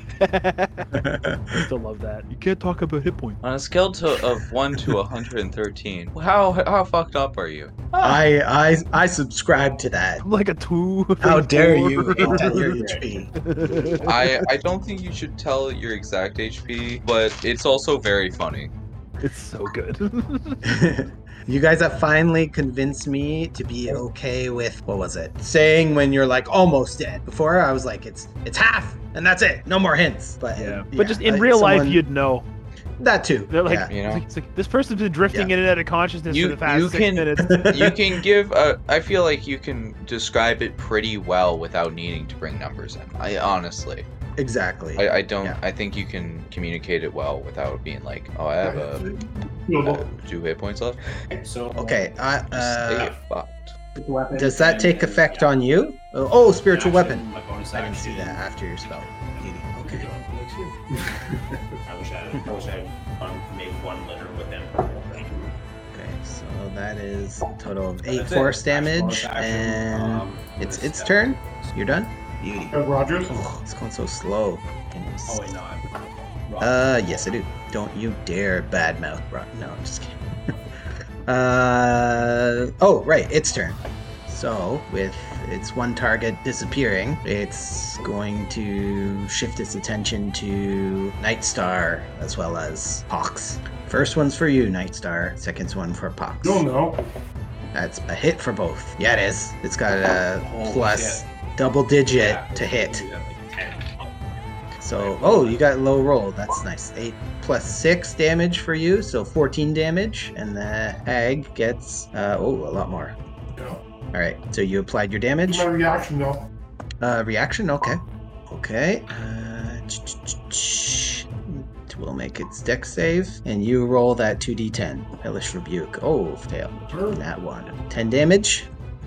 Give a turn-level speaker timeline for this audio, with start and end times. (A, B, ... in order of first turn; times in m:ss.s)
0:00.2-0:00.9 A
0:00.9-0:01.7 B
0:01.5-0:03.4 A
0:03.4-0:07.8 C
0:07.9-0:08.2 A
0:08.0-0:10.2 B
0:10.2-0:12.7 A
0:11.2-0:13.3 B
0:12.2-0:13.1 D
0:13.4-0:14.2 A
0:14.1-0:18.7 C
0:19.2-0:20.6 A
0:20.6-0:32.0 B
0:30.6-0:32.5 A
0:33.0-0:33.9 B
0:33.5-0:37.7 A
0:33.9-0:34.2 C
0:36.3-0:44.1 C
0:37.4-0:38.0 B
0:44.4-0:45.6 B
0:45.0-0:49.0 C
0:48.6-0:50.1 E
0:49.8-0:51.0 C
0:51.3-0:52.1 D
0:51.8-0:53.1 B
0:52.5-0:53.7 C
0:54.0-0:55.5 D
0:54.3-1:00.1 B
0:56.7-0:58.5 D
0:59.1-0:59.5 D
0:59.8-1:01.4 E
1:01.8-1:05.5 D
1:05.9-1:15.5 B
1:08.1-1:11.7 D
1:12.7-1:13.4 E
1:15.3-1:16.0 D
1:16.5-1:17.0 D
1:16.6-1:20.6 B
1:21.3-1:36.6 B
1:36.4-1:37.0 E
1:37.7-1:43.0 B
1:40.4-1:41.3 D
1:42.1-1:44.1 D
1:44.8-1:53.2 B
1:45.0-1:45.6 D
1:54.1-1:55.7 B
1:55.5-1:56.4 E
1:57.0-2:08.7 B
2:06.8-2:07.2 E